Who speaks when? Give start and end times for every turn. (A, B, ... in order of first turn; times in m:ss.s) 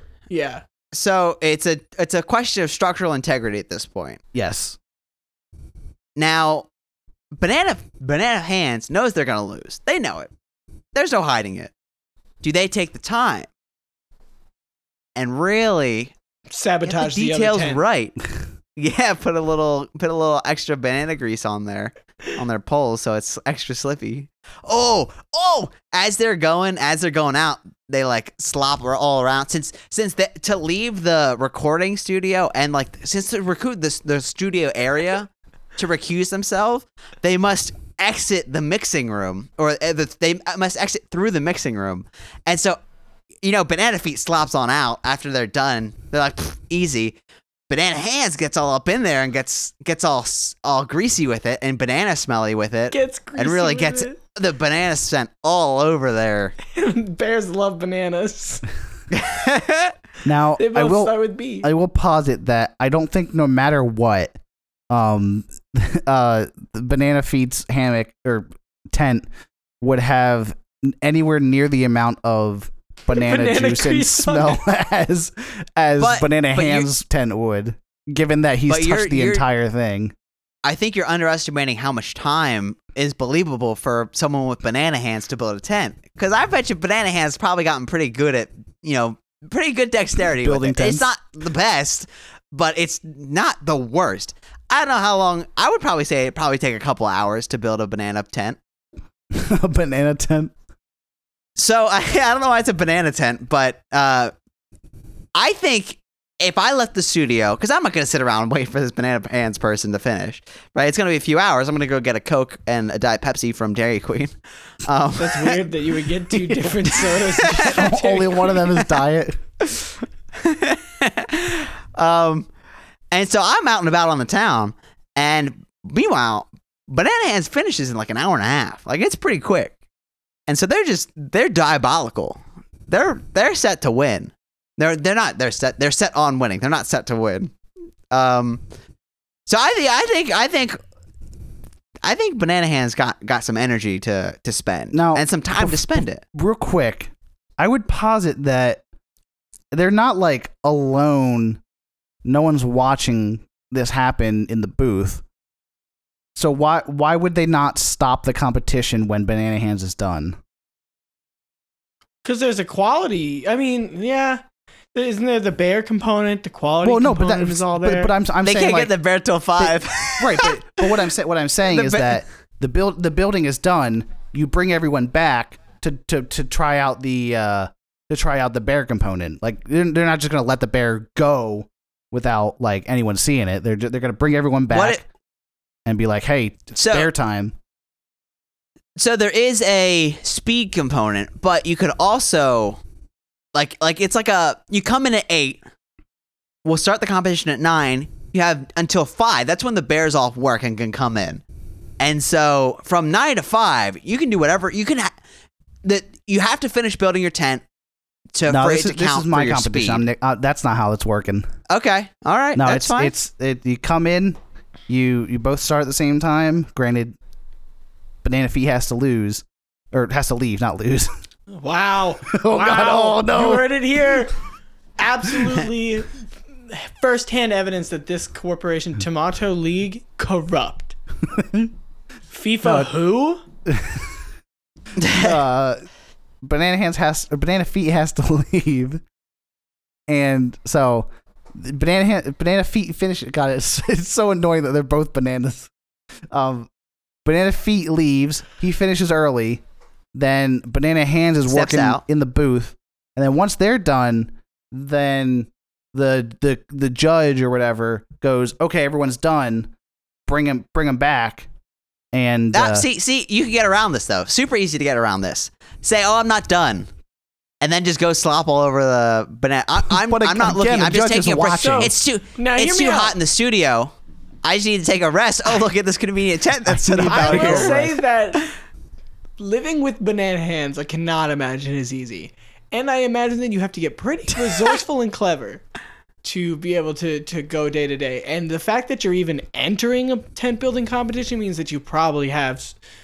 0:00.3-0:00.6 A
0:00.9-0:04.2 B
0:04.3-0:04.8 C
0:06.2-0:06.7 B
0:07.4-0:10.3 B
0:10.9-0:11.7 B
0:12.4-0:13.5 B
0:15.2-0:16.1 B
0:16.5-0:17.8 A
0:16.8-0:18.2 B
0:18.8-0:42.8 B
0:43.4-0:47.2 B
0:47.7-0:56.6 B
0:52.9-0:54.2 A
0:56.7-0:58.6 A
0:59.1-0:59.9 B
1:00.2-1:04.4 C
1:00.6-1:01.7 A
1:04.9-1:09.2 C
1:09.8-1:20.1 C
1:13.1-1:14.6 A
1:16.0-1:16.9 B
1:18.7-1:19.5 B
1:20.6-1:38.6 B
1:30.4-1:31.1 C
1:39.3-1:40.5 C
1:41.6-1:44.3 B
1:45.4-1:55.7 B
1:55.2-1:58.6 A
1:56.4-1:59.4 C
1:57.4-1:57.8 B
1:59.6-2:02.5 B
2:03.1-2:09.8 B
2:10.5-2:17.5 B
2:18.1-2:18.6 B
2:19.5-2:20.8 B
2:22.0-2:26.2 B
2:24.9-2:28.8 C
2:29.7-2:31.6 C
2:32.2-2:35.2 C
2:36.4-2:40.4 C
2:42.2-2:44.4 A
2:44.9-2:48.1 A
2:46.8-2:48.9 C
2:48.4-2:51.0 B
2:49.6-3:05.0 C
2:51.7-2:52.2 B
3:04.7-3:05.0 B
3:05.9-3:07.5 C
3:06.8-3:07.1 B
3:09.0-3:12.8 B
3:13.5-3:15.6 B
3:16.6-3:21.4 B
3:22.0-3:25.1 B
3:25.8-3:27.6 B
3:28.3-3:30.0 B
3:28.5-3:31.5 C
3:31.7-3:33.1 B
3:32.6-3:37.2 C
3:38.2-3:41.1 C
3:41.5-3:44.4 A
3:42.3-3:43.8 C
3:45.0-3:51.0 A
3:51.3-3:51.7 C
3:52.3-3:53.4 A
3:53.7-3:54.2 C
3:55.0-3:55.4 B
3:55.1-3:55.8 C
3:56.4-3:59.0 C
4:00.1-4:05.7 C
4:06.3-4:06.7 C
4:07.2-4:09.6 C
4:10.1-4:19.7 C
4:11.5-4:12.0 B
4:20.3-4:21.5 C
4:22.1-4:22.8 C
4:22.5-4:26.9 B
4:27.6-4:37.9 B
4:29.9-4:31.9 C
4:31.6-4:33.2 A
4:36.7-4:38.0 C
4:37.0-4:38.5 A
4:39.4-4:45.6 A
4:46.2-4:52.8 A